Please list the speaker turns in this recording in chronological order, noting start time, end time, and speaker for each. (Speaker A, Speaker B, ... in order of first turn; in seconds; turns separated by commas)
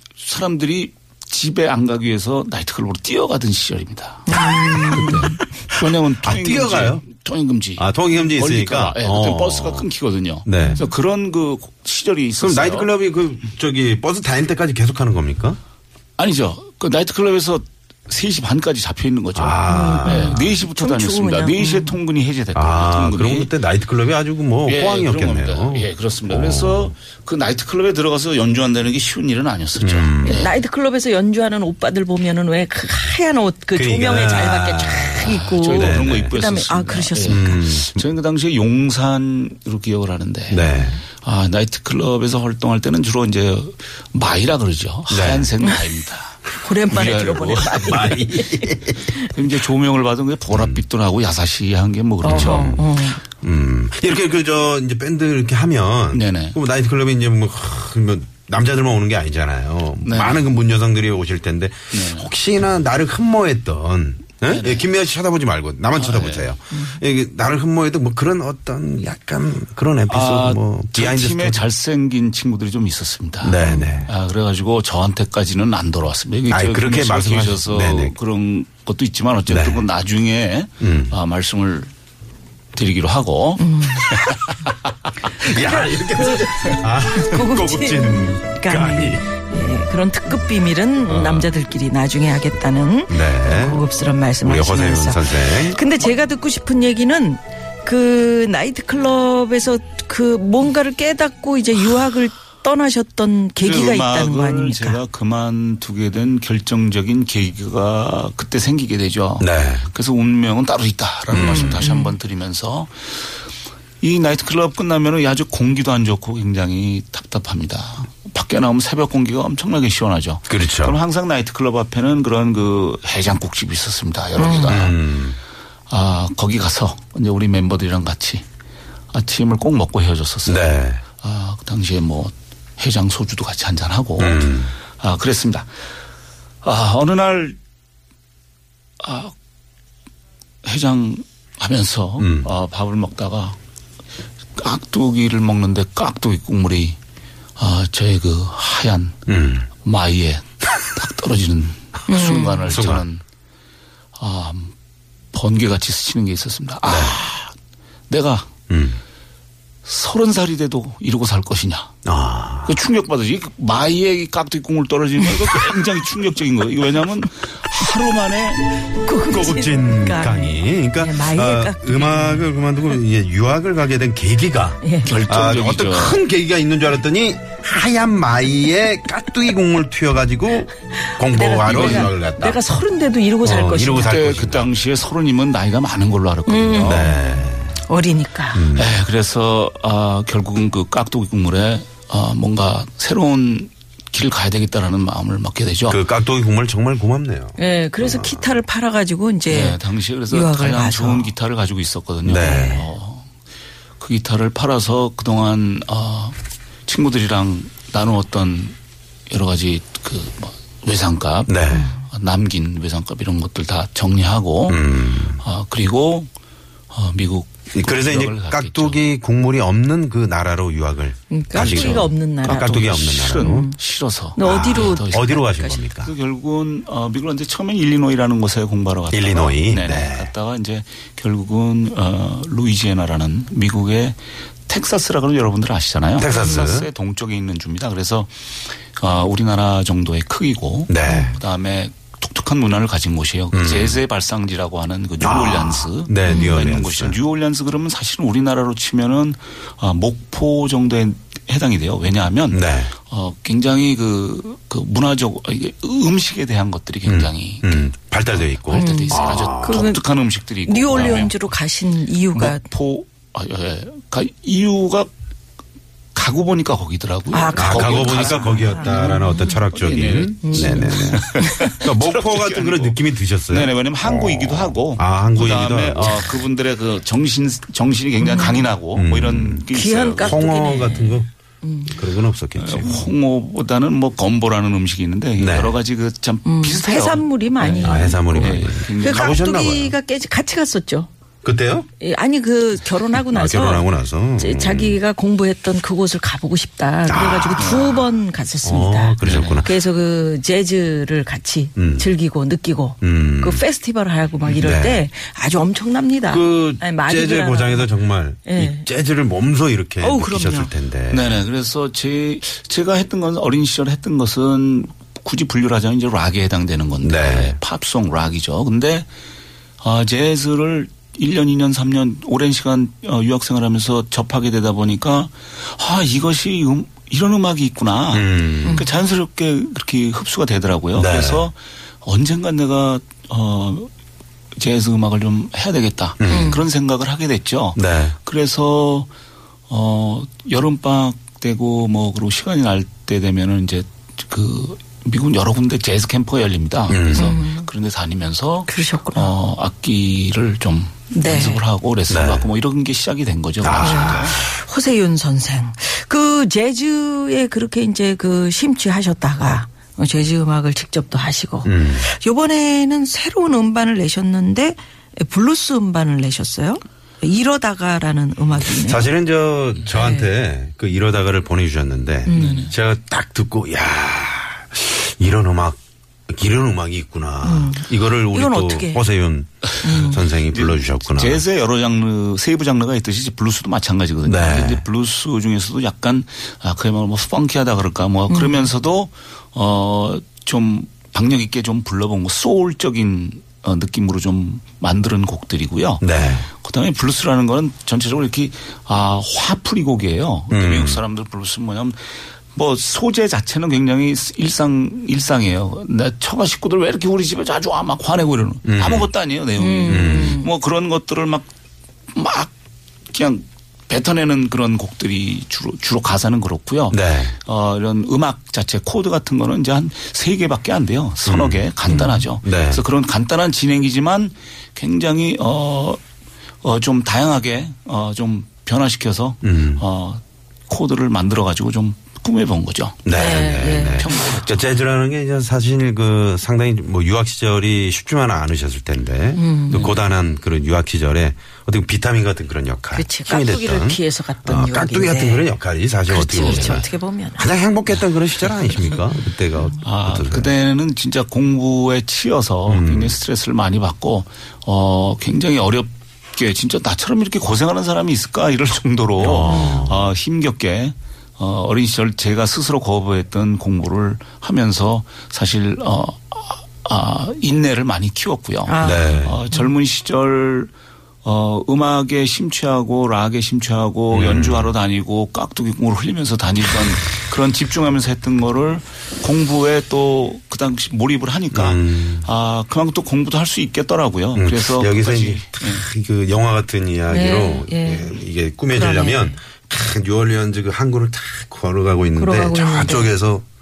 Speaker A: 0.2-12.9, Speaker B: 4.3-5.4, Speaker C: 5.0-5.3, Speaker C: 6.2-7.0, Speaker C: 7.8-9.9, Speaker C: 10.4-10.8, Speaker C: 12.4-15.6, Speaker A: 16.2-23.5, Speaker C: 19.3-20.6, Speaker B: 19.6-22.0, Speaker C: 22.5-26.9, Speaker A: 24.6-30.5, Speaker C: 29.8-30.5, Speaker B: 30.2-37.6, Speaker C: 33.7-36.4, Speaker A: 35.2-48.2, Speaker C: 37.2-38.0, Speaker C: 40.5-41.0, Speaker C: 45.1-45.5, Speaker B: 46.5-49.3, Speaker C: 47.8-49.1, Speaker A: 49.3-52.8, Speaker C: 50.5-50.8, Speaker B: 52.2-53.2, Speaker C: 52.2-52.9, Speaker C: 53.4-71.7, Speaker A: 56.1-56.6, Speaker A: 60.0-60.4, Speaker A: 61.9-62.3, Speaker A: 64.4-64.9, Speaker A: 66.0-66.5, Speaker B: 66.7-67.0, Speaker A: 70.1-81.9, Speaker C: 73.4-74.1, Speaker B: 73.6-74.0, Speaker C: 76.5-78.2, Speaker C: 79.5-79.8, Speaker C: 80.8-81.1, Speaker A: 82.7-83.8, Speaker B: 83.6-84.1, Speaker C: 85.3-89.2, Speaker B: 85.4-105.0, Speaker C: 91.0-91.5, Speaker C: 93.1-93.9, Speaker C: 94.4-95.8, Speaker A: 103.6-113.2, Speaker C: 109.4-109.9, Speaker C: 111.3-111.8, Speaker B: 111.3-112.1, Speaker A: 114.0-125.0, Speaker C: 120.5-121.0, Speaker B: 124.4-124.8, Speaker C: 124.6-125.4, Speaker A: 125.9-128.4, Speaker A: 129.1-135.7, Speaker C: 130.4-131.0, Speaker C: 134.2-134.8, Speaker A: 136.6-137.6, Speaker A: 139.0-139.3, Speaker A: 140.6-143.6, Speaker C: 142.2-142.5, Speaker A: 144.6-147.0, Speaker A: 147.6-149.2, Speaker C: 149.3-149.7, Speaker A: 149.8-153.2, Speaker B: 152.1-152.7, Speaker C: 152.7-153.1, Speaker A: 154.2-154.7, Speaker A: 155.3-157.5, Speaker C: 156.8-157.2, Speaker A: 158.1-158.5, Speaker C: 158.7-159.0, Speaker A: 159.8-161.9, Speaker C: 162.1-162.8, Speaker A: 162.6-168.7, Speaker B: 168.9-172.6, Speaker C: 169.3-182.8, Speaker B: 174.8-175.1, Speaker A: 175.1-176.2, Speaker B: 181.0-184.2, Speaker A: 181.7-182.1, Speaker C: 183.4-184.7, Speaker A: 184.0-187.1, Speaker B: 186.5-187.2, Speaker C: 186.8-187.8, Speaker B: 187.8-188.7, Speaker C: 188.5-189.0, Speaker A: 188.8-196.0, Speaker C: 195.9-198.4, Speaker B: 197.6-201.3, Speaker A: 199.5-203.3, Speaker C: 202.2-202.8, Speaker B: 202.4-202.9, Speaker A: 204.0-208.8, Speaker A: 209.3-216.3, Speaker C: 211.5-211.9, Speaker C: 214.7-215.4, Speaker A: 216.9-219.0, Speaker C: 217.7-223.7, Speaker B: 221.3-223.8, Speaker A: 221.5-261.4, Speaker B: 224.3-225.8, Speaker C: 224.4-226.1, Speaker C: 229.1-230.3, Speaker C: 236.2-236.9, Speaker C: 240.9-241.4, Speaker B: 241.1-241.3, Speaker C: 243.5-244.0, Speaker C: 245.2-247.2, Speaker B: 246.3-246.6, Speaker C: 252.5-252.9, Speaker C: 257.1-259.9, Speaker B: 258.7-260.1, Speaker B: 260.6-262.6, Speaker C: 260.9-261.3, Speaker A: 262.3-265.1, Speaker A: 266.1-280.4, Speaker B: 267.3-269.6, Speaker C: 267.6-276.4, Speaker B: 270.4-271.7, Speaker B: 278.2-278.7, Speaker C: 278.9-279.7, Speaker B: 279.7-281.9, Speaker C: 280.2-281.3, Speaker C: 281.9-283.1, Speaker A: 282.6-289.4, Speaker C: 285.4-285.8, Speaker B: 286.4-291.1, Speaker C: 287.8-290.0, Speaker C: 291.4-291.9, Speaker B: 292.0-307.9, Speaker C: 293.1-295.0, Speaker C: 297.1-298.0, Speaker A: 297.6-298.0, Speaker C: 298.6-299.8, Speaker A: 299.2-299.7, Speaker C: 301.8-302.1, Speaker C: 303.0-303.6, Speaker C: 304.6-305.0, Speaker C: 306.3-311.4, Speaker B: 308.4-308.9, Speaker B: 310.0-310.7, Speaker A: 311.1-319.1, Speaker C: 317.0-317.6, Speaker A: 319.8-333.9, Speaker C: 328.1-328.8, Speaker C: 330.9-331.5, Speaker A: 334.6-339.1, Speaker C: 336.2-336.6, Speaker B: 336.3-336.6, Speaker C: 337.8-338.2, Speaker A: 339.7-354.4, Speaker C: 346.9-347.4, Speaker B: 347.1-347.7, Speaker B: 348.7-349.3, Speaker B: 351.1-351.6, Speaker C: 352.1-352.5, Speaker C: 353.6-354.4, Speaker B: 353.7-369.1, Speaker C: 361.6-362.1, Speaker C: 368.6-381.4, Speaker B: 369.9-370.3, Speaker B: 372.3-372.7, Speaker A: 372.3-372.7, Speaker B: 377.4-379.1, Speaker A: 379.7-411.5, Speaker B: 379.8-380.2, Speaker C: 384.2-384.8, Speaker B: 388.3-388.7, Speaker C: 396.0-396.5, Speaker C: 400.5-401.0, Speaker C: 408.7-409.1, Speaker B: 409.6-410.5, Speaker C: 409.9-410.4, Speaker A: 412.1-412.5, Speaker A: 413.1-426.0, Speaker C: 416.9-417.4, Speaker C: 421.2-422.8, Speaker A: 426.6-433.1, Speaker C: 429.4-429.8, Speaker C: 433.1-450.5, Speaker B: 433.1-434.1, Speaker A: 433.9-434.8, Speaker B: 439.4-439.9, Speaker B: 442.9-445.5, Speaker B: 446.1-447.5, Speaker A: 446.3-446.8, Speaker A: 449.8-470.7, Speaker C: 452.7-453.2, Speaker C: 459.2-460.1, Speaker B: 459.5-459.8, Speaker B: 468.7-469.7, Speaker C: 468.8-469.4, Speaker A: 471.2-485.9, Speaker C: 474.1-474.7, Speaker C: 481.5-482.3, Speaker C: 484.3-493.4, Speaker B: 487.1-488.2, Speaker B: 488.7-489.3, Speaker B: 492.2-493.2